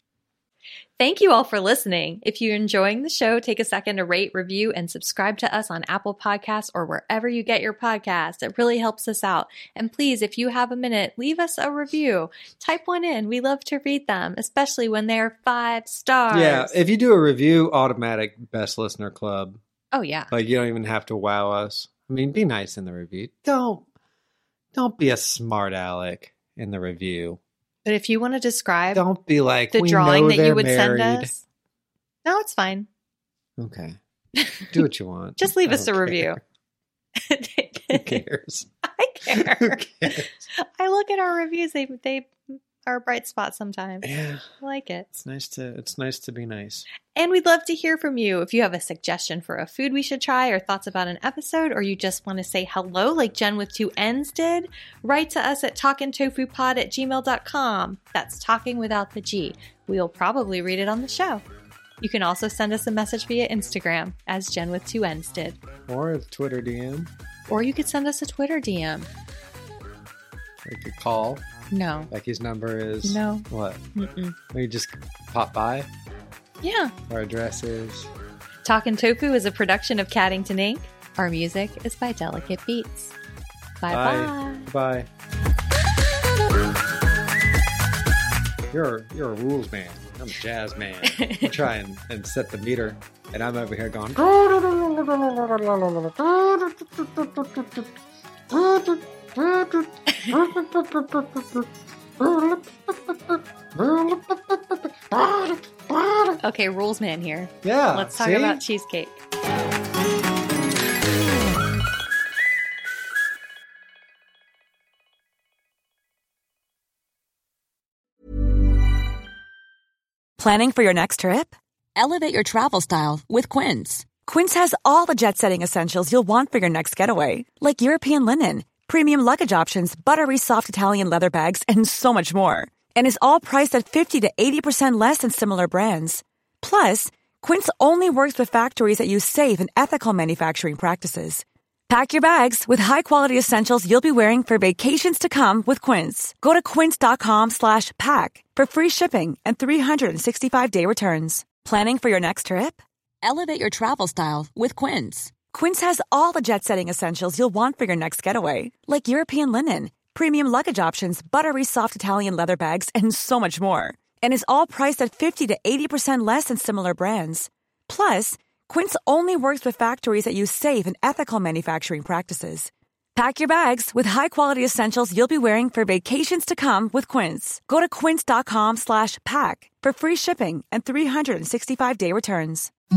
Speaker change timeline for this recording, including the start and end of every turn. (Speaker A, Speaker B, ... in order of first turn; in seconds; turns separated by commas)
Speaker A: 1.0-16.8, Speaker B: 16.3-19.6, Speaker A: 19.9-20.3, Speaker B: 20.3-23.8, Speaker B: 24.7-27.4, Speaker A: 27.8-29.0, Speaker B: 28.9-31.3, Speaker A: 29.7-31.4, Speaker A: 32.2-32.9, Speaker B: 33.6-34.0, Speaker A: 34.4-34.8, Speaker B: 34.7-36.4, Speaker A: 35.4-36.4, Speaker A: 37.1-38.2, Speaker B: 37.9-38.7, Speaker A: 38.9-45.1, Speaker B: 39.3-40.3, Speaker B: 44.0-44.5, Speaker B: 45.1-46.9, Speaker A: 47.1-61.4, Speaker A: 62.0-65.6, Speaker B: 65.9-67.1, Speaker A: 67.5-69.1, Speaker B: 70.6-71.4, Speaker A: 71.7-72.1, Speaker B: 72.1-73.8, Speaker A: 73.0-74.3, Speaker B: 74.5-75.9, Speaker A: 76.6-76.9, Speaker B: 77.1-78.1, Speaker A: 78.6-83.1, Speaker A: 83.8-84.7, Speaker B: 83.9-85.1, Speaker B: 88.7-97.9, Speaker A: 91.1-91.5, Speaker B: 98.5-106.4, Speaker A: 106.4-109.2, Speaker B: 107.6-108.6, Speaker C: 120.4-182.7